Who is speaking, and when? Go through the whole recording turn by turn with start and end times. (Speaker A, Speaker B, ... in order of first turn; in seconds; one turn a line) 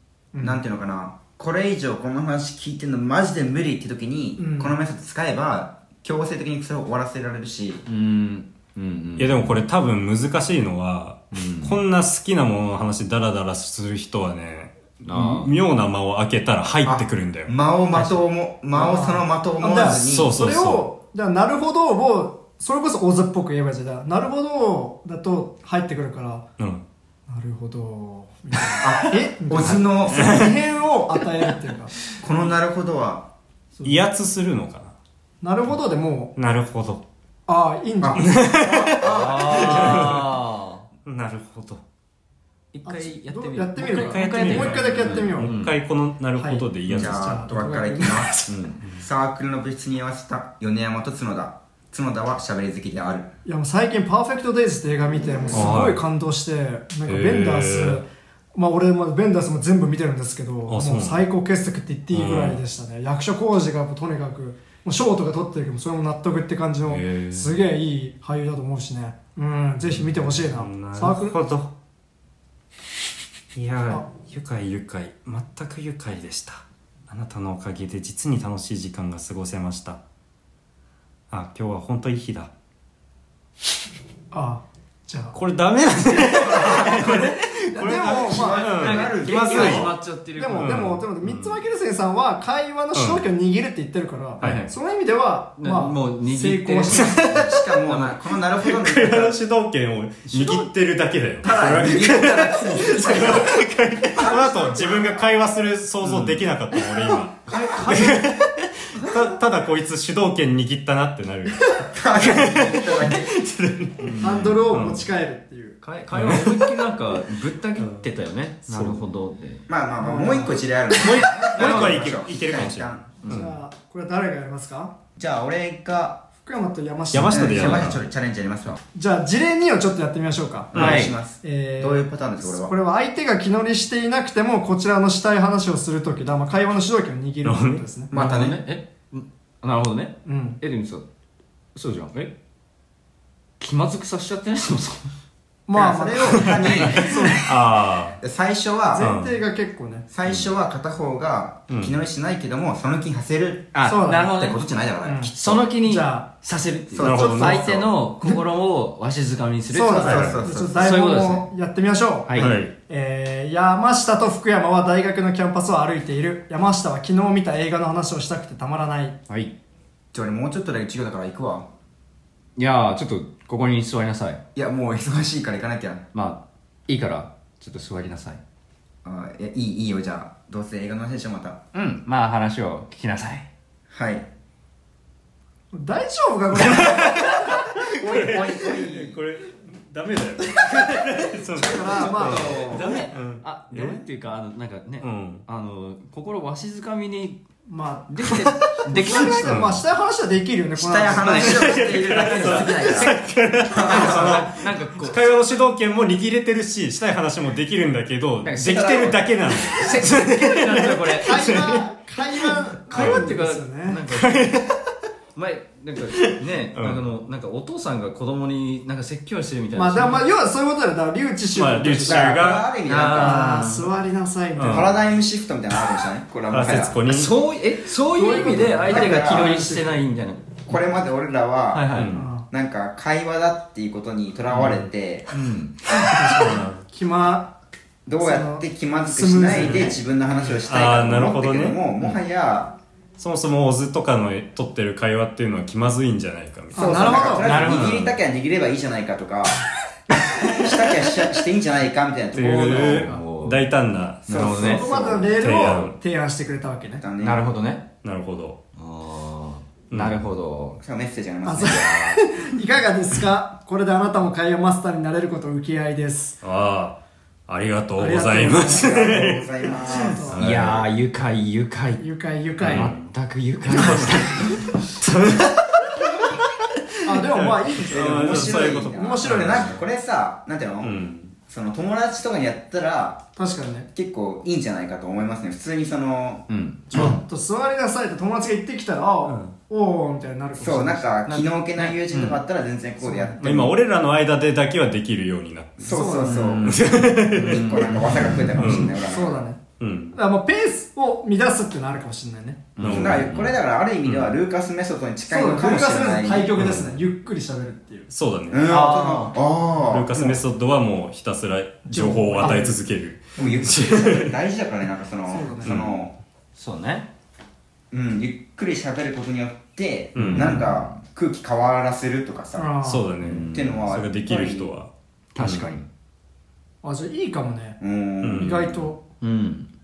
Speaker A: 0.3-0.6
Speaker B: 0.4-7.8
Speaker A: 4.4-4.8
Speaker C: 7.9-9.6
Speaker D: 9.2-17.5
Speaker C: 11.3-11.8
Speaker C: 15.0-15.5
Speaker B: 16.9-20.5
Speaker A: 18.7-26.5
Speaker D: 20.1-20.9
Speaker D: 26.6-26.8
Speaker A: 27.3-31.9
Speaker B: 28.8-30.5
Speaker D: 29.6-30.6
Speaker B: 32.2-33.3
Speaker D: 33.8-35.0
Speaker A: 35.4-36.3
Speaker D: 36.4-37.0
Speaker A: 37.5-38.3
Speaker B: 38.0-40.2
Speaker D: 38.2-40.2
Speaker C: 39.0-40.9
Speaker D: 41.0-41.8
Speaker C: 42.7-45.8
Speaker A: 42.9-45.5
Speaker D: 43.8-47.4
Speaker A: 46.4-48.4
Speaker B: 46.9-53.3
Speaker C: 48.5-48.9
Speaker A: 53.5-71.4
Speaker B: 55.3-55.7
Speaker D: 55.5-56.0
Speaker D: 57.1-58.0
Speaker D: 60.7-61.2
Speaker D: 62.1-62.6
Speaker D: 66.9-67.6
Speaker D: 69.9-71.7
Speaker D: 73.5-80.0
Speaker D: 81.3-82.5
Speaker A: 84.3-85.4
Speaker D: 85.3-89.9
Speaker B: 86.2-87.3
Speaker C: 87.0-90.8
Speaker A: 87.8-88.7
Speaker B: 87.8-89.9
Speaker A: 90.4-97.2
Speaker D: 90.6-91.6
Speaker D: 93.0-93.2
Speaker C: 94.4-94.7
Speaker C: 95.6-98.2
Speaker D: 96.9-97.5
Speaker B: 97.2-99.4
Speaker D: 98.6-115.1
Speaker C: 100.3-100.7
Speaker B: 101.4-105.3
Speaker C: 106.0-106.5
Speaker C: 107.5-108.4
Speaker C: 109.0-109.2
Speaker B: 111.9-113.4
Speaker C: 114.0-114.6
Speaker A: 114.2-115.8
Speaker C: 115.8-119.7
Speaker D: 116.1-116.7
Speaker D: 117.8-118.0
Speaker D: 118.7-119.1
Speaker B: 119.7-123.2
Speaker A: 120.0-120.5
Speaker D: 121.0-123.5
Speaker C: 121.5-122.2
Speaker C: 123.2-123.5
Speaker A: 123.3-124.9
Speaker B: 125.2-126.2
Speaker A: 126.4-127.9
Speaker D: 127.1-128.0
Speaker B: 127.3-128.8
Speaker A: 128.9-138.1
Speaker B: 130.7-132.7
Speaker C: 130.7-131.1
Speaker D: 137.4-137.8
Speaker B: 138.1-138.6
Speaker C: 138.1-141.1
Speaker A: 140.3-140.6
Speaker C: 141.8-142.3
Speaker C: 143.6-145.1
Speaker A: 145.7-147.4
Speaker B: 145.7-147.5
Speaker D: 146.4-148.2
Speaker C: 146.4-147.2
Speaker B: 148.2-149.1
Speaker A: 148.9-150.1
Speaker D: 149.0-149.4
Speaker B: 150.1-155.7
Speaker D: 151.7-152.0
Speaker C: 153.7-154.6
Speaker A: 153.8-154.4
Speaker A: 155.0-156.3
Speaker C: 155.4-161.5
Speaker B: 156.9-158.3
Speaker D: 157.0-157.7
Speaker A: 159.7-169.2
Speaker B: 160.0-161.0
Speaker D: 160.1-160.4
Speaker C: 162.3-162.6
Speaker D: 162.4-162.7
Speaker B: 170.1-171.7
Speaker C: 172.6-174.4
Speaker B: 174.6-176.0
Speaker C: 176.1-178.4
Speaker B: 179.0-181.6
Speaker C: 181.7-183.5
Speaker B: 183.9-184.3
Speaker A: 185.7-187.5
Speaker D: 186.7-192.1
Speaker B: 187.9-189.2
Speaker A: 191.5-192.7
Speaker C: 191.9-197.4
Speaker B: 192.0-193.1
Speaker D: 193.1-194.0
Speaker D: 195.0-195.4
Speaker A: 197.7-198.4
Speaker C: 198.1-199.7
Speaker D: 198.3-199.8
Speaker A: 198.9-201.6
Speaker B: 200.8-203.2
Speaker C: 201.1-205.3
Speaker D: 201.3-211.8
Speaker B: 203.7-204.4
Speaker C: 208.4-211.7
Speaker B: 208.8-209.1
Speaker A: 211.2-214.0
Speaker C: 212.9-214.6
Speaker D: 212.9-213.3
Speaker D: 214.1-214.8
Speaker C: 215.3-220.3
Speaker A: 219.8-222.6
Speaker D: 221.5-222.7
Speaker B: 222.1-223.5
Speaker C: 222.9-223.9
Speaker A: 223.1-224.9
Speaker D: 224.6-224.9
Speaker B: 224.7-227.0
Speaker D: 226.5-227.3
Speaker C: 227.1-230.8
Speaker A: 228.1-230.0
Speaker B: 228.7-229.6
Speaker B: 230.7-235.3
Speaker C: 231.7-232.2
Speaker D: 231.9-232.3
Speaker A: 232.1-232.4
Speaker C: 234.5-236.6
Speaker A: 235.9-237.5
Speaker D: 236.4-236.8
Speaker B: 238.1-242.8
Speaker A: 238.2-240.0
Speaker C: 239.6-239.9
Speaker D: 240.7-241.8
Speaker D: 243.2-248.1
Speaker A: 246.8-247.5
Speaker B: 246.8-249.6
Speaker C: 247.4-248.1
Speaker B: 250.1-253.1
Speaker D: 252.3-254.8
Speaker C: 252.4-253.7
Speaker B: 254.3-255.3
Speaker C: 254.3-254.8
Speaker A: 254.7-257.1
Speaker D: 255.3-256.0
Speaker B: 257.0-257.4
Speaker C: 257.2-257.9
Speaker D: 258.0-258.6
Speaker C: 258.8-260.8
Speaker D: 259.9-260.3
Speaker B: 260.8-261.8
Speaker A: 261.4-266.4
Speaker C: 261.6-262.2
Speaker D: 266.4-269.5
Speaker A: 268.0-269.1
Speaker B: 268.6-270.4
Speaker A: 269.8-270.4
Speaker D: 270.3-270.9
Speaker C: 270.4-272.1
Speaker A: 272.0-272.9
Speaker D: 272.6-273.1
Speaker C: 272.6-274.8
Speaker D: 273.7-276.5
Speaker A: 277.0-279.7
Speaker D: 277.1-279.8
Speaker B: 277.9-283.2
Speaker D: 280.8-281.3
Speaker A: 283.4-283.9
Speaker B: 283.9-287.2
Speaker C: 286.5-287.2
Speaker A: 286.9-291.2
Speaker D: 289.2-289.5
Speaker B: 290.6-293.8
Speaker C: 291.3-292.4
Speaker A: 293.0-293.4
Speaker D: 293.4-296.0
Speaker B: 295.8-296.8
Speaker A: 295.9-296.5
Speaker C: 296.3-298.8
Speaker D: 296.6-298.0
Speaker B: 297.4-299.5
Speaker D: 298.6-298.9
Speaker A: 298.9-299.6
Speaker D: 299.8-300.2
Speaker A: 300.1-302.7
Speaker C: 302.8-303.6
Speaker D: 302.8-303.3
Speaker B: 302.8-306.5
Speaker D: 304.0-304.3
Speaker A: 305.3-308.1
Speaker D: 306.6-307.0
Speaker D: 308.1-308.8
Speaker B: 308.5-310.4
Speaker C: 308.6-309.3
Speaker D: 309.9-314.3
Speaker A: 311.9-312.8
Speaker B: 313.4-316.1
Speaker A: 315.3-315.8
Speaker D: 315.6-315.9
Speaker C: 316.6-317.1
Speaker B: 317.9-322.7
Speaker D: 320.1-320.6
Speaker C: 320.2-320.8
Speaker A: 322.6-323.1
Speaker D: 322.8-325.7
Speaker C: 323.2-323.9
Speaker B: 323.5-324.7
Speaker C: 325.4-325.9
Speaker A: 326.8-327.8
Speaker B: 327.8-328.8
Speaker D: 328.2-328.8
Speaker A: 328.4-329.0
Speaker C: 329.2-329.7